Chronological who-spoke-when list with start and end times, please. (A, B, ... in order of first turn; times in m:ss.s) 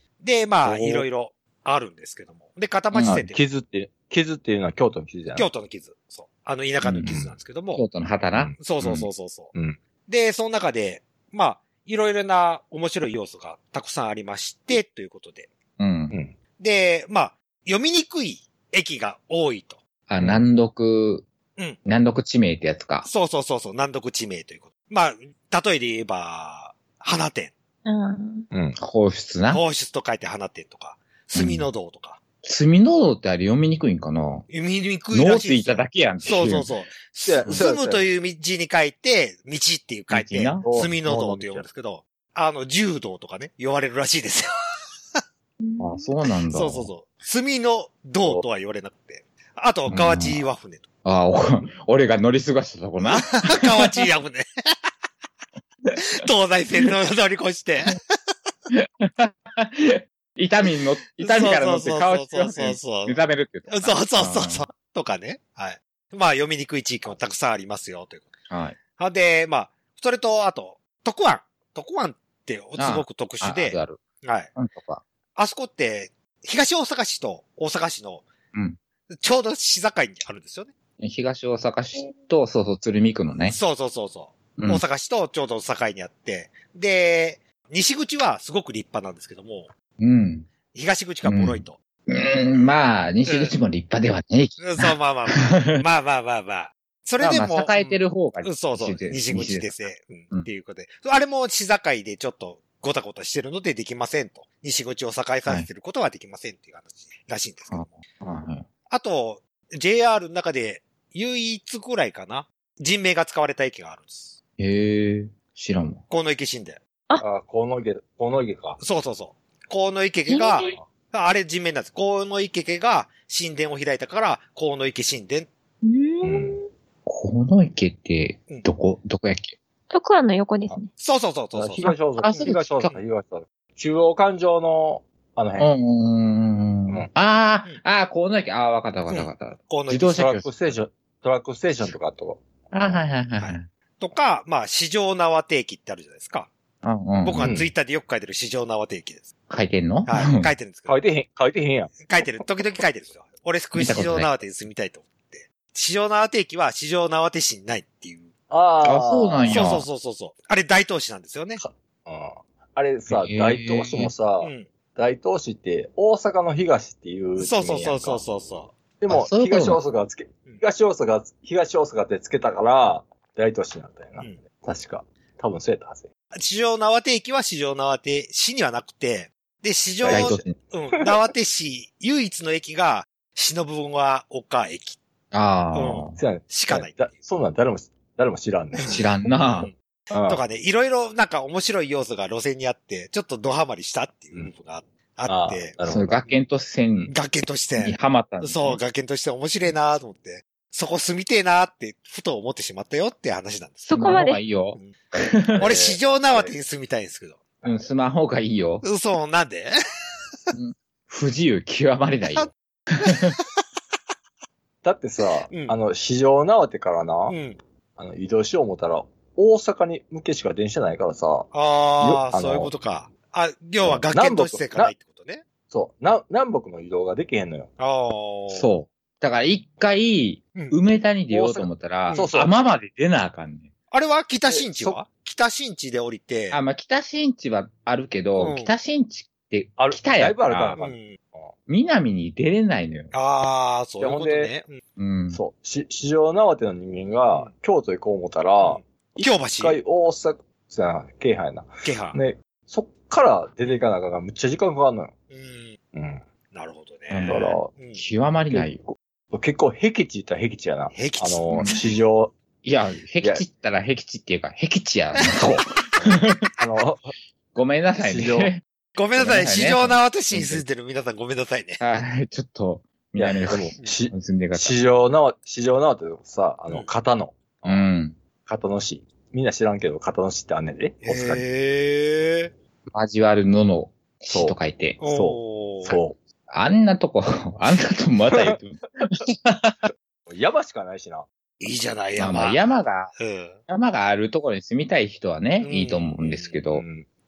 0:00.2-0:03.4 A
0:00.6-0:01.1 B
0:02.9-0:03.3 C
0:03.0-0:05.5 B
0:05.3-0:07.8 A
0:06.8-0:07.2 C
0:07.0-0:07.3 B
0:07.7-0:09.1 C
0:08.3-0:08.9 B
0:08.6-0:09.5 A
0:10.1-0:15.5 A
0:15.8-0:16.2 C
0:16.6-0:19.8 A
0:20.1-0:21.2 C
0:21.8-0:23.1 C
0:23.0-0:27.5 A
0:27.8-0:28.5 D
0:28.5-0:28.8 B
0:28.8-0:29.6 C
0:29.5-0:32.2 A
0:31.3-0:31.7 C
0:32.4-0:34.4 C
0:34.5-0:44.5 A
0:35.1-0:36.7 C
0:37.2-0:38.1 B
0:40.1-0:40.9 C
0:40.6-0:41.6 B
0:45.6-0:46.1 D
0:45.8-0:46.9 C
0:46.5-0:50.8 A
0:49.9-0:50.4 C
0:51.0-0:54.0 C
0:53.1-0:54.5 A
0:56.0-0:58.0 A
0:58.7-1:04.7 C
1:01.2-1:08.3 A
1:08.5-1:08.8 C
1:09.0-1:14.5 A
1:12.8-1:14.0 C
1:14.6-1:15.0 C
1:15.4-1:18.3 A
1:18.5-1:18.8 C
1:19.1-1:20.7 A
1:21.0-1:23.6 C
1:23.5-1:29.7 A
1:24.6-1:24.8 C
1:30.0-1:30.5 C
1:30.7-1:31.8 A
1:31.2-1:35.8 C
1:33.2-1:33.5 A
1:34.6-1:37.9 A
1:37.2-1:39.8 C
1:38.4-1:47.9 A
1:47.7-1:48.7 C
1:48.9-1:54.4 A
1:54.6-1:56.0 C
1:56.1-1:56.8 A
1:57.2-1:58.8 B
1:58.8-2:05.5 A
2:00.3-2:00.8 D
2:05.8-2:06.7 D
2:06.2-2:06.6 B
2:07.0-2:09.6 C
2:09.9-2:10.9 D
2:11.0-2:13.0 A
2:11.5-2:15.7 B
2:11.8-2:12.9 C
2:15.6-2:20.5 C
2:19.1-2:20.3 A
2:20.1-2:23.0 B
2:22.7-2:23.7 C
2:23.4-2:26.5 A
2:26.8-2:27.6 C
2:27.2-2:29.3 A
2:27.4-2:27.7 B
2:29.5-2:30.5 C
2:30.0-2:31.0 A
2:30.9-2:32.0 B
2:32.0-2:38.3 A
2:33.7-2:34.3 C
2:38.5-2:39.7 B
2:38.8-2:39.9 C
2:39.5-2:41.6 A
2:41.6-2:48.2 B
2:43.1-2:44.1 C
2:44.4-2:44.7 A
2:47.4-2:48.7 A
2:49.0-2:56.1 B
2:49.1-2:49.8 C
2:56.3-3:05.0 A
3:00.0-3:00.4 B
3:00.1-3:00.5 C
3:05.3-3:06.2 C
3:05.7-3:07.1 A
3:06.1-3:09.0 B
3:08.8-3:09.0 A
3:08.8-3:10.4 C
3:10.3-3:16.4 A
3:15.3-3:16.2 B
3:15.9-3:17.1 C
3:17.1-3:24.1 A
3:17.8-3:18.8 C
3:23.9-3:24.4 D
3:23.9-3:25.7 C
3:25.5-3:26.5 B
3:25.6-3:27.5 A
3:27.6-3:28.8 C
3:28.8-3:29.7 A
3:30.5-3:33.4 C
3:34.8-3:37.4 B
3:35.5-3:35.7 A
3:37.3-3:37.6 A
3:38.0-3:41.5 B
3:41.5-3:45.4 A
3:42.0-3:42.7 B
3:43.8-3:44.9 B
3:45.7-3:47.7 B
3:47.8-3:48.7 A
3:48.5-3:53.7 C
3:51.3-3:52.5 B
3:53.9-3:56.6 A
3:54.5-3:55.0 B
3:56.5-4:00.8 C
3:58.4-3:58.7 A
3:59.8-4:01.5 B
4:00.8-4:01.2 A
4:01.7-4:03.1 C
4:03.1-4:04.8 A
4:04.0-4:04.5 B
4:05.0-4:05.4 C
4:05.3-4:15.1 B
4:08.6-4:09.8 A
4:11.8-4:12.2 A
4:15.3-4:15.8 A
4:15.9-4:16.2 B
4:16.5-4:18.0 A
4:17.1-4:18.9 C
4:17.2-4:17.7 B
4:19.3-4:22.3 B
4:20.9-4:21.7 A
4:21.5-4:21.8 C
4:22.6-4:26.5 C
4:26.6-4:27.1 B
4:27.5-4:28.6 C
4:28.0-4:28.5 B
4:29.0-4:31.8 A
4:29.2-4:30.6 C
4:31.8-4:34.8 C
4:33.2-4:37.9 B
4:37.6-4:38.2 C
4:38.4-4:41.4 B
4:41.0-4:42.5 A
4:42.9-4:45.0 C
4:44.3-4:46.2 B
4:45.0-4:46.0 A
4:46.5-4:49.9 C
4:48.3-4:48.6 B
4:50.3-4:51.3 B
4:51.6-4:52.6 A
4:52.2-4:53.1 C
4:53.2-4:53.6 A
4:53.7-4:56.8 C
4:55.6-4:56.6 A
4:56.4-4:57.0 B